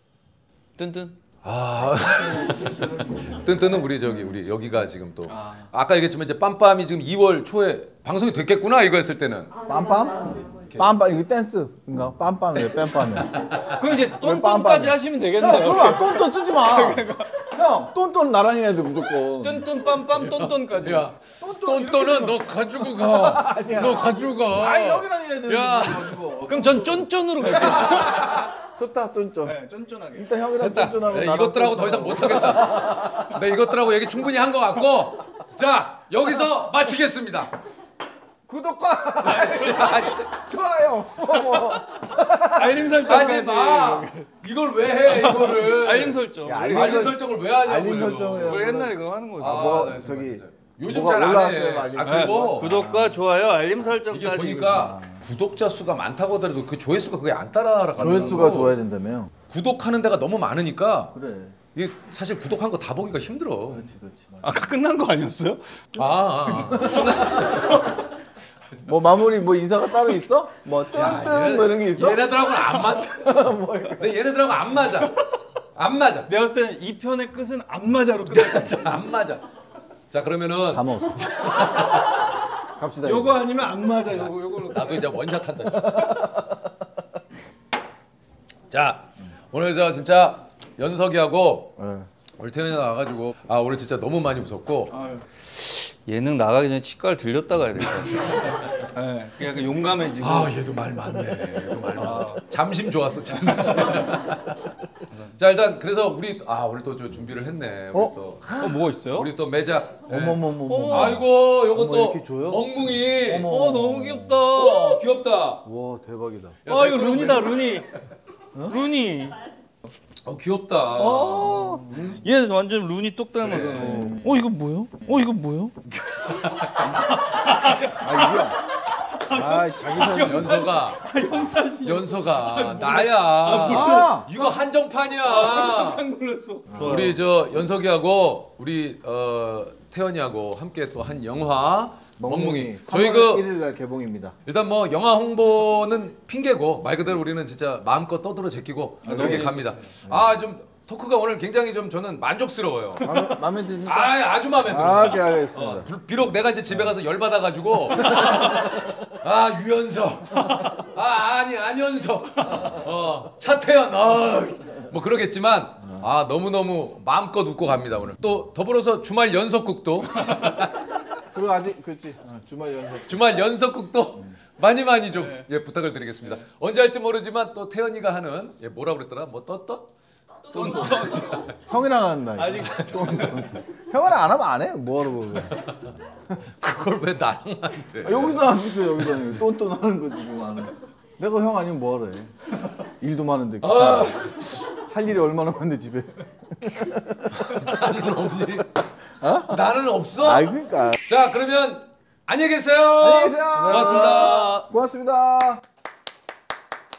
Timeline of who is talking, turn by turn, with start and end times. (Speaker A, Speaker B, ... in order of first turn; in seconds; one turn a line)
Speaker A: 0.8-1.2
Speaker B: 1.4-9.6
Speaker C: 1.9-3.9
Speaker A: 5.3-5.7
Speaker C: 9.7-13.4
Speaker B: 12.8-13.8
Speaker A: 13.7-17.4
Speaker C: 13.9-19.7
Speaker A: 19.4-21.1
Speaker B: 20.0-26.3
Speaker C: 21.4-29.6
Speaker A: 26.5-28.4
Speaker A: 29.4-30.3
Speaker C: 30.1-33.4
Speaker B: 30.6-37.5
Speaker C: 38.5-43.0
Speaker B: 39.2-40.4
Speaker A: 42.5-44.3
Speaker B: 43.0-48.8
Speaker A: 45.0-47.1
Speaker C: 46.5-53.2
Speaker A: 48.4-50.0
Speaker B: 49.4-52.9
Speaker A: 52.0-55.0
Speaker B: 54.1-58.8
Speaker C: 58.0-59.3
Speaker A: 58.0-58.7
Speaker B: 59.5-61.1
Speaker C: 61.1-61.6
Speaker B: 61.7-63.9
Speaker C: 63.7-64.7
Speaker A: 64.4-65.8
Speaker B: 66.0-67.9
Speaker A: 66.5-67.9
Speaker C: 66.9-67.2
Speaker C: 68.9-74.1
Speaker B: 70.9-75.1
Speaker B: 75.8-76.3
Speaker A: 76.3-78.9
Speaker B: 78.3-79.4
Speaker B: 80.1-82.3
Speaker C: 80.7-81.7
Speaker C: 82.8-83.5
Speaker A: 83.0-85.1
Speaker B: 84.7-86.3
Speaker C: 86.0-86.6
Speaker B: 88.7-91.8
Speaker C: 91.8-92.1
Speaker B: 92.4-95.0
Speaker A: 94.9-100.6
Speaker B: 98.2-98.7
Speaker B: 100.2-104.8
Speaker A: 102.0-102.4
Speaker A: 103.6-104.0
Speaker B: 105.4-113.5
Speaker C: 107.9-108.7
Speaker A: 108.5-109.3
Speaker C: 110.1-112.7
Speaker A: 110.7-111.2
Speaker A: 113.3-115.0
Speaker C: 113.3-114.4
Speaker B: 114.5-115.6
Speaker C: 115.7-116.6
Speaker B: 116.7-118.0
Speaker A: 116.7-117.9
Speaker A: 118.6-119.4
Speaker B: 120.2-121.5
Speaker A: 121.0-125.8
Speaker C: 121.5-122.2
Speaker C: 123.5-124.4
Speaker B: 123.5-124.0
Speaker B: 125.9-127.1
Speaker A: 126.8-134.6
Speaker C: 128.0-128.6
Speaker C: 129.3-130.7
Speaker B: 129.9-131.0
Speaker B: 131.8-136.1
Speaker C: 133.7-134.3
Speaker A: 135.2-137.2
Speaker B: 136.8-143.5
Speaker C: 136.8-137.1
Speaker C: 142.2-144.4
Speaker B: 144.5-153.3
Speaker A: 149.1-149.7
Speaker C: 149.1-150.3
Speaker C: 153.0-155.9
Speaker B: 153.8-170.8
Speaker C: 171.3-173.2
Speaker B: 173.1-179.9
Speaker A: 175.1-175.5
Speaker B: 180.5-181.5
Speaker A: 180.5-181.5
Speaker C: 181.6-185.7
Speaker A: 182.4-183.3
Speaker B: 182.6-183.5
Speaker B: 186.4-188.5
Speaker C: 188.0-197.7
Speaker B: 193.6-194.7
Speaker B: 197.3-198.9
Speaker C: 199.2-199.7
Speaker B: 199.5-200.5
Speaker C: 200.2-201.0
Speaker B: 201.1-204.6
Speaker C: 203.0-205.6
Speaker A: 203.5-204.7